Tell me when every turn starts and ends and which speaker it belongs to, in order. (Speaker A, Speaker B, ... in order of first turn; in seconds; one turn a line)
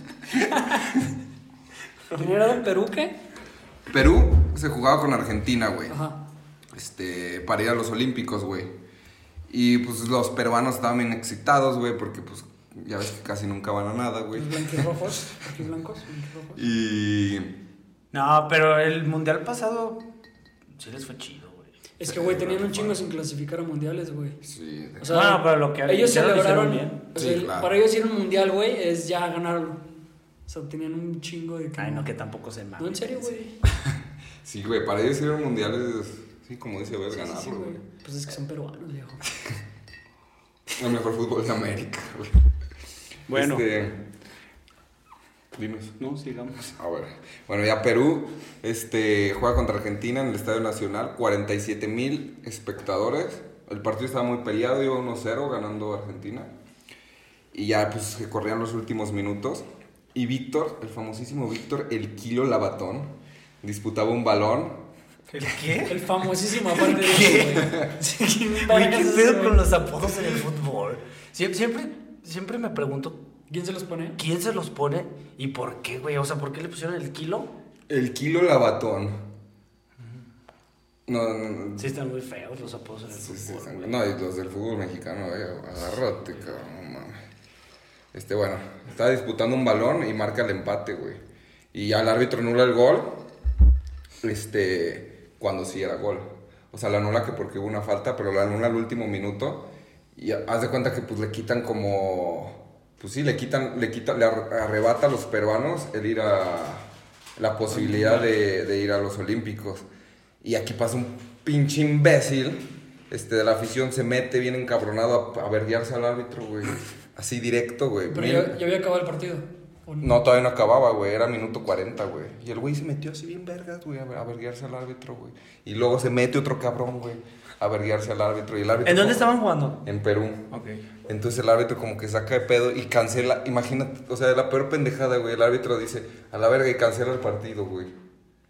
Speaker A: 0.4-0.8
Speaker A: 2.1-3.1
Speaker B: 3.9-6.0
Speaker A: 5.9-6.2
Speaker B: 6.7-8.7
Speaker B: 9.5-15.2
Speaker A: 14.3-16.6
Speaker B: 16.6-17.5
Speaker C: 18.1-20.0
Speaker C: 20.8-21.8
Speaker A: 22.0-24.4
Speaker B: 22.0-23.0
Speaker B: 24.4-25.1
Speaker A: 25.0-29.8
Speaker C: 25.1-27.1
Speaker B: 27.2-27.7
Speaker A: 30.5-32.1
Speaker C: 31.8-33.4
Speaker A: 32.8-33.5
Speaker B: 33.8-37.8
Speaker A: 37.1-39.3
Speaker B: 40.7-42.4
Speaker C: 43.3-43.7
Speaker B: 43.3-44.0
Speaker B: 45.5-45.9
Speaker C: 46.0-46.7
Speaker B: 46.8-56.5
Speaker B: 57.5-64.8
Speaker C: 65.3-66.0
Speaker A: 65.9-69.6
Speaker C: 66.7-67.8
Speaker B: 67.6-67.9
Speaker C: 68.6-73.2
Speaker A: 73.5-74.2
Speaker C: 74.2-77.5
Speaker B: 77.9-79.2
Speaker B: 81.1-81.9
Speaker C: 81.8-84.1
Speaker B: 83.2-87.2
Speaker B: 88.1-91.2
Speaker B: 91.7-93.2
Speaker B: 94.2-106.9
Speaker B: 107.4-109.9
Speaker A: 107.7-108.3
Speaker B: 110.4-118.6
Speaker A: 118.1-120.2
Speaker B: 120.0-129.3
Speaker C: 128.8-129.8
Speaker B: 129.8-130.5
Speaker C: 130.5-130.8
Speaker B: 131.1-137.9